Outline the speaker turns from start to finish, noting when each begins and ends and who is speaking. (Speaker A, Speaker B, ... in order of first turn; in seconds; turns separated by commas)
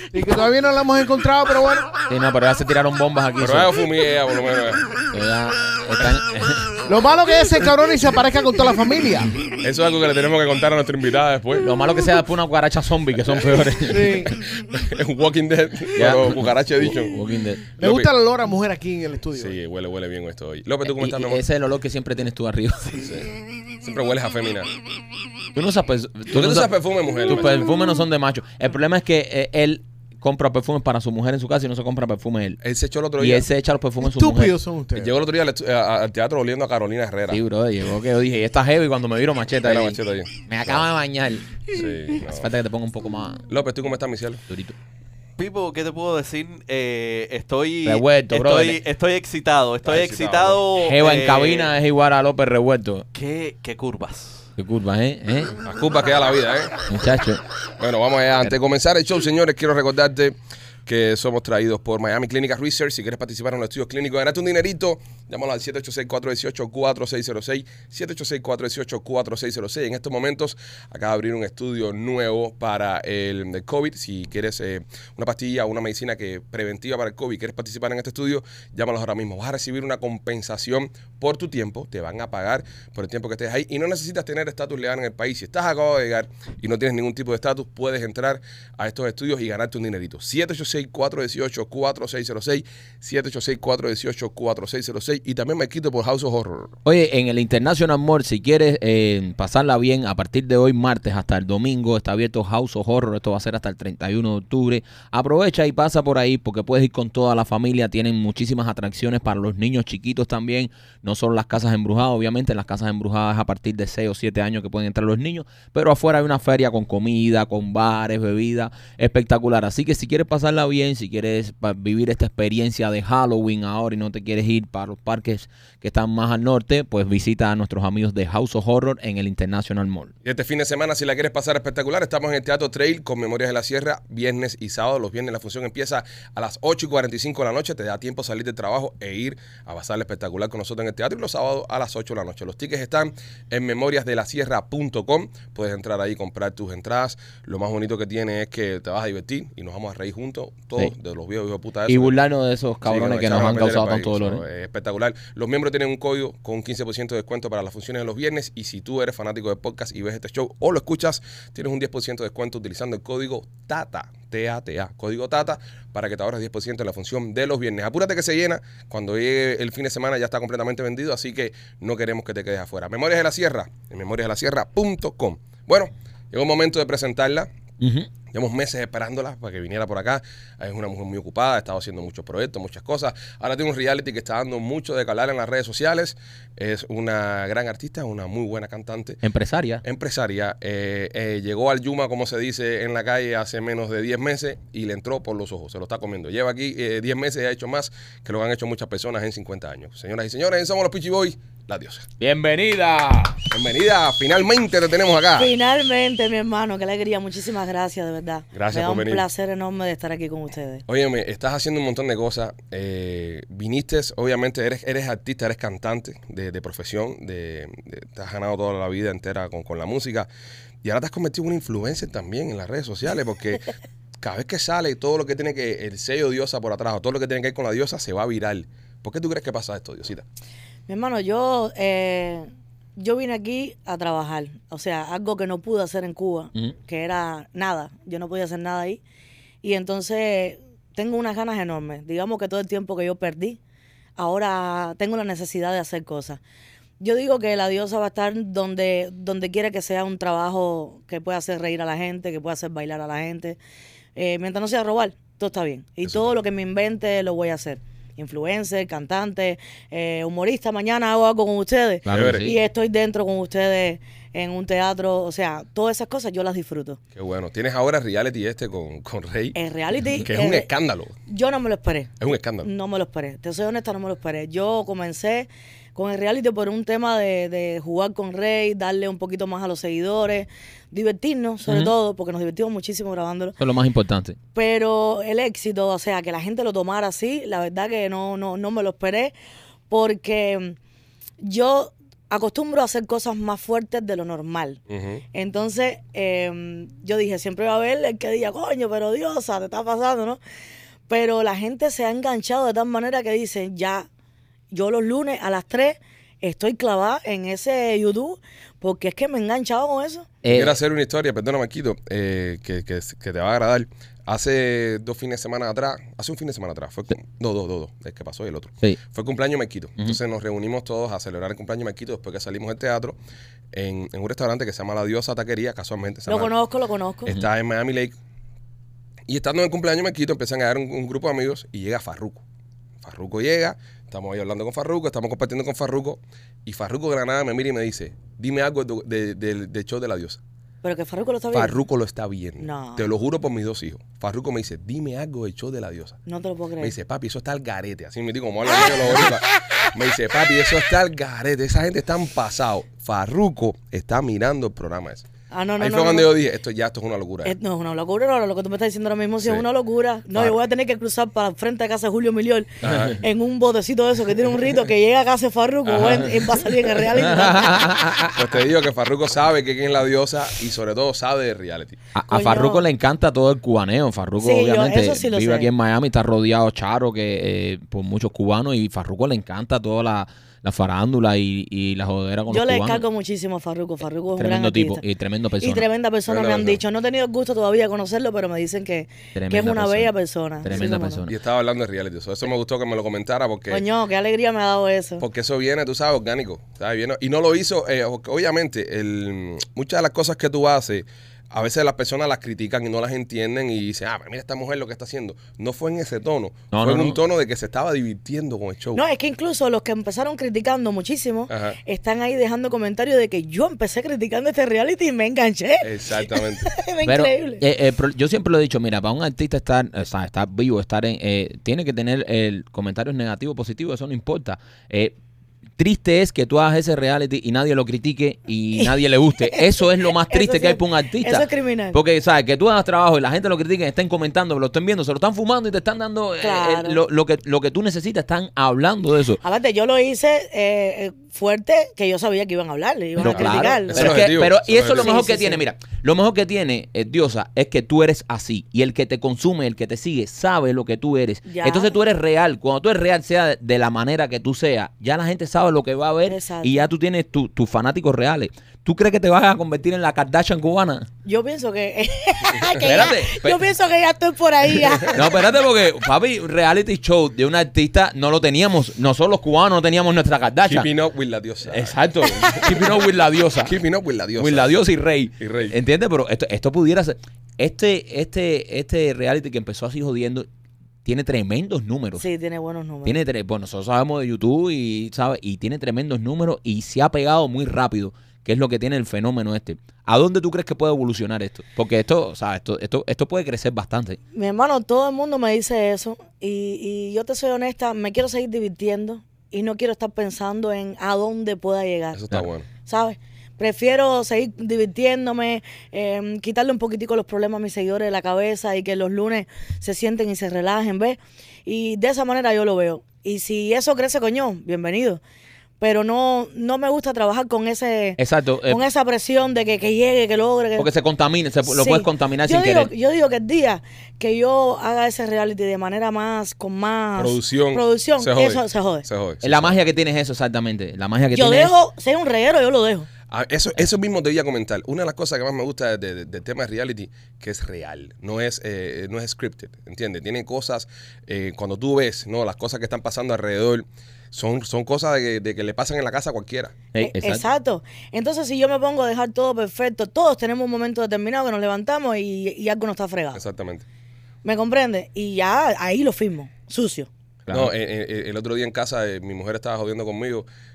Speaker A: 0.1-1.9, Speaker B: 2.1-3.8, Speaker C: 3.4-4.9, Speaker B: 5.1-6.7, Speaker A: 6.9-9.4, Speaker C: 9.6-11.7, Speaker B: 11.6-14.3, Speaker A: 13.9-14.3, Speaker C: 14.3-17.2, Speaker B: 15.9-17.6, Speaker C: 17.8-18.1, Speaker A: 17.8-19.5, Speaker C: 19.4-21.4, Speaker B: 20.8-23.2, Speaker C: 23.0-24.7, Speaker B: 25.5-32.6, Speaker C: 26.3-27.7, Speaker C: 32.6-33.5, Speaker B: 33.2-34.5, Speaker A: 34.0-35.1, Speaker C: 35.0-37.4, Speaker B: 37.3-43.5, Speaker C: 39.6-40.8, Speaker C: 41.7-42.5, Speaker C: 43.5-44.4, Speaker B: 44.5-44.8, Speaker D: 45.4-51.7, Speaker B: 47.8-48.8, Speaker C: 49.8-50.6, Speaker B: 50.8-53.0, Speaker D: 53.1-54.5, Speaker B: 54.6-55.5, Speaker C: 55.6-56.8, Speaker B: 56.9-57.4, Speaker C: 57.8-96.8, Speaker B: 96.8-130.1, Speaker C: 130.2-152.2, Speaker B: 151.9-154.4, Speaker C: 152.8-177.5, Speaker B: 177.8-178.1, Speaker C: 178.3-189.2, Speaker B: 189.2-189.8, Speaker C: 189.8-202.1, Speaker B: 202.2-203.5, Speaker C: 203.5-205.5, Speaker E: 205.4-210.8, Speaker C: 208.5-209.2, Speaker C: 210.9-220.3, Speaker C: 220.8-223.7, Speaker C: 224.2-230.2, Speaker E: 230.9-239.0, Speaker E: 239.6-243.6, Speaker E: 244.2-246.4, Speaker E: 247.0-253.6, Speaker E: 254.2-267.0, Speaker B: 262.0-262.6, Speaker C: 262.1-262.5, Speaker C: 267.1-269.6, Speaker E: 269.5-270.7, Speaker C: 270.2-271.1, Speaker E: 271.3-283.6, Speaker C: 272.2-272.7, Speaker B: 281.6-281.9, Speaker B: 283.6-284.4, Speaker E: 284.5-289.3, Speaker E: 289.9-290.8, Speaker E: 291.4-294.8, Speaker C: 294.9-295.2, Speaker E: 295.3-300.4, Speaker E: 301.1-304.1, Speaker E: 304.7-310.3, Speaker B: 310.4-310.8, Speaker C: 310.5-323.2, Speaker C: 323.7-326.5, Speaker E: 326.3-327.3, Speaker C: 327.2-328.1, Speaker C: 329.3-332.4, Speaker C: 333.0-340.4, Speaker E: 340.8-341.8, Speaker C: 341.5-346.2, Speaker E: 342.6-343.0, Speaker E: 346.3-346.9, Speaker C: 346.8-355.2, Speaker E: 355.5-356.3, Speaker C: 355.8-357.5, Speaker E: 357.4-367.9, Speaker C: 362.8-363.2, Speaker C: 365.9-366.6, Speaker B: 367.2-368.4, Speaker C: 368.3-372.0, Speaker B: 372.1-383.0, Speaker E: 372.3-372.9, Speaker E: 374.4-375.7, Speaker E: 382.5-385.0, Speaker B: 384.4-385.9, Speaker E: 385.6-391.2, Speaker C: 386.3-386.8, Speaker B: 389.4-390.1, Speaker B: 390.6-391.4, Speaker C: 390.7-393.8, Speaker E: 393.7-395.2, Speaker C: 395.2-409.0, Speaker B: 406.7-407.2, Speaker E: 408.9-417.6, Speaker C: 411.5-411.8, Speaker C: 415.8-416.7, Speaker B: 417.0-425.1, Speaker B: 425.8-439.4, Speaker E: 428.8-432.0, Speaker E: 436.4-437.0, Speaker E: 439.4-444.2, Speaker B: 443.2-461.1, Speaker C: 443.3-445.1, Speaker E: 444.8-445.6, Speaker E: 451.4-451.9, Speaker E: 456.2-456.8, Speaker E: 461.2-465.2, Speaker B: 462.8-463.6, Speaker B: 465.1-470.9, Speaker C: 470.6-471.9, Speaker B: 471.7-473.7, Speaker E: 472.2-472.6, Speaker C: 473.6-474.7, Speaker B: 474.4-480.5, Speaker C: 475.4-475.7, Speaker B: 481.0-482.2, Speaker E: 482.2-483.1, Speaker B: 483.0-494.2, Speaker E: 494.4-502.2, Speaker C: 502.1-502.7, Speaker E: 502.8-515.2, Speaker E: 515.8-520.9, Speaker B: 518.2-518.8, Speaker B: 520.8-522.9, Speaker E: 521.6-529.0, Speaker C: 527.2-529.8, Speaker B: 529.4-531.7, Speaker E: 531.3-533.1, Speaker C: 533.3-546.7, Speaker B: 546.9-547.4, Speaker E: 547.0-553.4, Speaker C: 553.4-553.9, Speaker E: 554.4-557.1, Speaker B: 557.5-557.7, Speaker C: 557.5-560.5